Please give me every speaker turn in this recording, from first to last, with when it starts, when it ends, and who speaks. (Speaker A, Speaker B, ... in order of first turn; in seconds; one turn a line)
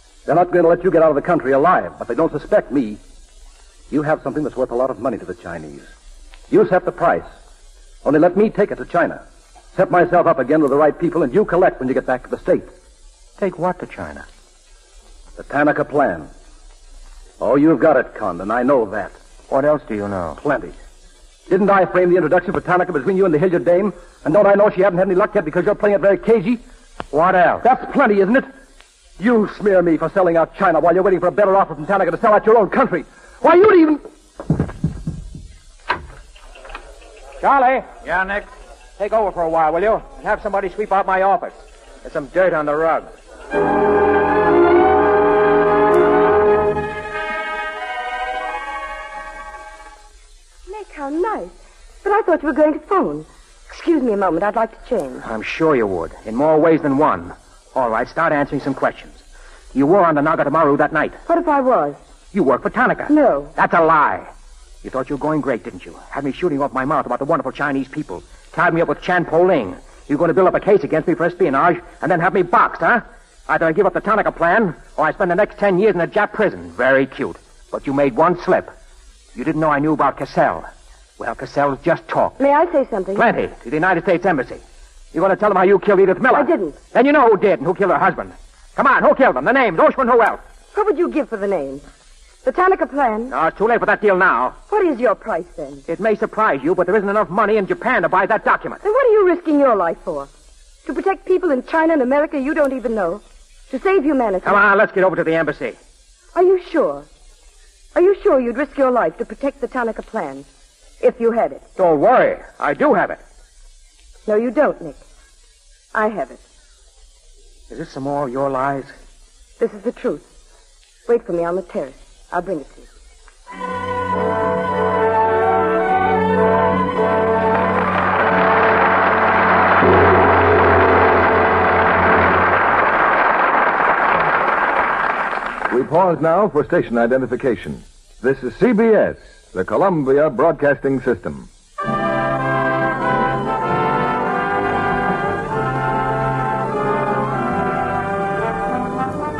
Speaker A: 0.2-3.0
Speaker A: 3.9-5.9
Speaker A: 6.5-7.3
Speaker A: 8.0-9.2
Speaker A: 9.7-12.7
Speaker B: 13.4-14.2
Speaker A: 15.4-16.3
Speaker A: 17.4-19.1
Speaker B: 19.5-20.4
Speaker A: 20.4-20.7
Speaker A: 21.5-26.6
Speaker B: 27.1-27.6
Speaker A: 27.6-28.5
Speaker A: 29.2-34.0
Speaker B: 37.4-38.3
Speaker B: 39.0-43.1
Speaker C: 50.7-55.2
Speaker B: 55.2-59.2
Speaker B: 59.7-61.2
Speaker C: 61.2-62.0
Speaker B: 62.3-64.3
Speaker C: 63.1-63.5
Speaker B: 64.8-78.7
Speaker B: 79.3-80.7
Speaker B: 81.2-82.4
Speaker C: 82.4-83.3
Speaker B: 83.1-84.6
Speaker B: 85.1-90.4
Speaker C: 86.3-86.8
Speaker C: 90.7-91.8
Speaker C: 92.4-93.3
Speaker B: 93.3-94.6
Speaker C: 94.7-95.8
Speaker B: 95.9-98.8
Speaker C: 98.8-100.3
Speaker C: 100.8-104.6
Speaker B: 104.4-105.8
Speaker C: 106.3-107.0
Speaker C: 107.9-110.5
Speaker C: 111.0-111.6
Speaker B: 111.8-113.2
Speaker C: 114.2-115.0
Speaker C: 115.9-116.4
Speaker B: 117.7-118.9
Speaker C: 119.6-120.2
Speaker C: 121.1-122.9
Speaker D: 135.7-141.5